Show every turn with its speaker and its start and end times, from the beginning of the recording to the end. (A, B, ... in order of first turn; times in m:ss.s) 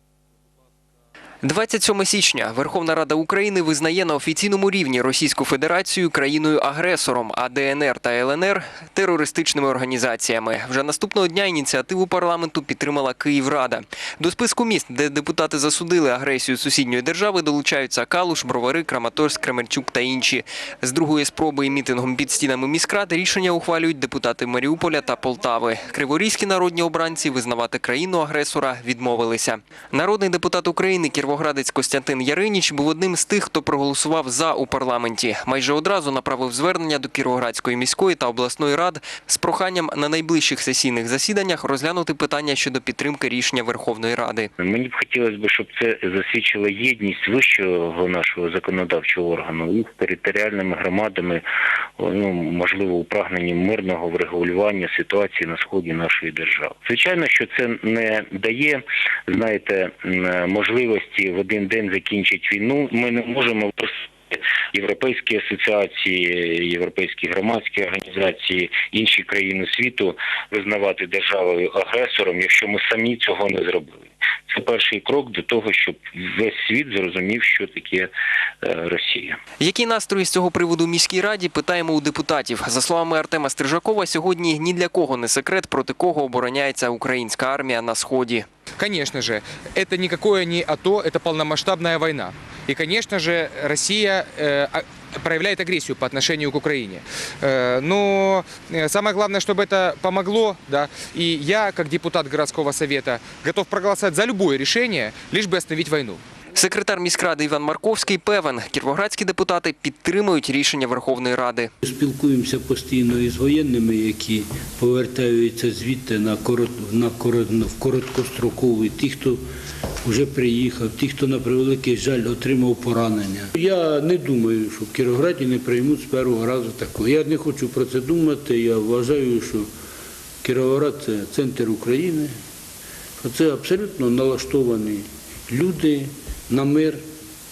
0:01.4-0:44.5 A
0:44.6-0:51.4 B
0:52.0-1:18.1 B
1:18.6-1:19.4 B
1:19.6-1:28.5 A
1:28.8-1:46.2 C
1:46.6-1:51.7 A
1:51.8-1:59.4 D
2:00.0-2:09.7 D
2:10.4-2:12.3 D
2:13.2-2:17.0 D